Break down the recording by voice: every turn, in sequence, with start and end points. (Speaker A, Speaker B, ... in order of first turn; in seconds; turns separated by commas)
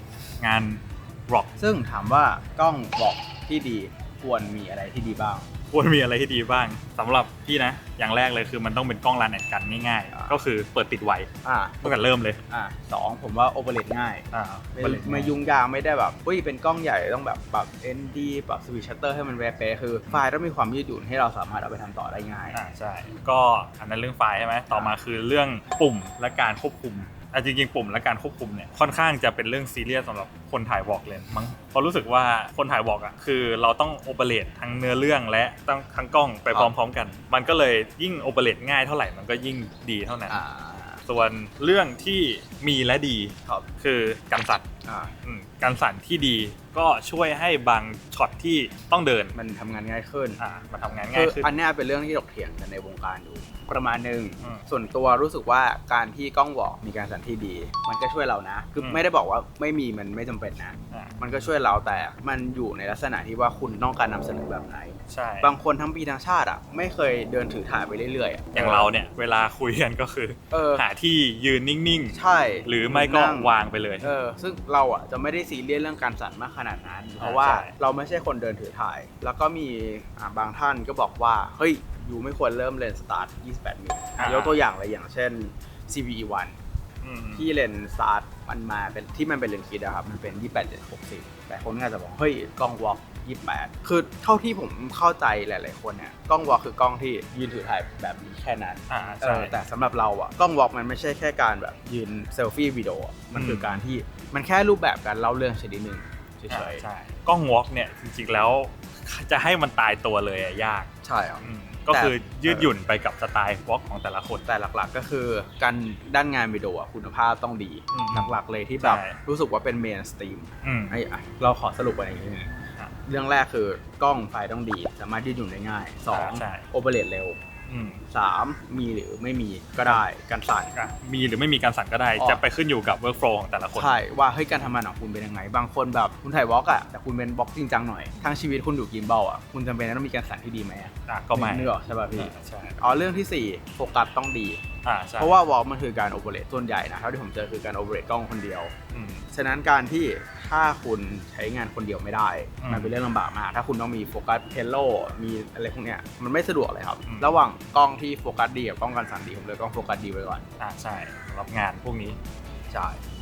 Speaker A: 0.4-1.5, Speaker B: 1.6-5.5, Speaker A: 5.7-11.3, Speaker B: 10.1-10.3, Speaker B: 11.4-14.2, Speaker A: 11.8-12.4, Speaker A: 14.3-15.3, Speaker B: 14.8-22.6, Speaker A: 22.5-40.4, Speaker B: 40.3-41.0, Speaker A: 41.0-44.6, Speaker B: 44.8-45.1, Speaker A: 45.2-49.3, Speaker B: 49.3-50.4, Speaker A: 50.4-51.5, Speaker B: 51.1-68.9, Speaker A: 58.8-59.0, Speaker A: 65.1-65.5, Speaker A: 68.5-74.1, Speaker B: 70.5-70.8, Speaker B: 72.1-86.5, Speaker A: 77.2-77.7, Speaker A: 84.2-84.6, Speaker A: 87.0-87.5, Speaker B: 87.3-106.8, Speaker A: 98.9-99.5, Speaker A: 103.3-103.8, Speaker A: 106.5-110.9, Speaker B: 111.0-112.7, Speaker A: 111.4-114.5, Speaker B: 114.5-122.5, Speaker A: 117.9-119.2, Speaker A: 120.6-121.0, Speaker B: 123.0-127.4, Speaker A: 126.1-126.7, Speaker A: 127.7-128.0, Speaker B: 128.1-130.7, Speaker A: 130.7-133.9, Speaker B: 132.2-132.4, Speaker B: 133.7-144.6, Speaker A: 141.1-142.8, Speaker A: 144.8-145.3, Speaker B: 145.2-148.7, Speaker A: 148.9-149.2, Speaker B: 149.3-160.4, Speaker A: 152.6-152.9, Speaker A: 157.0-157.3, Speaker A: 160.6-162.2, Speaker B: 162.7-163.0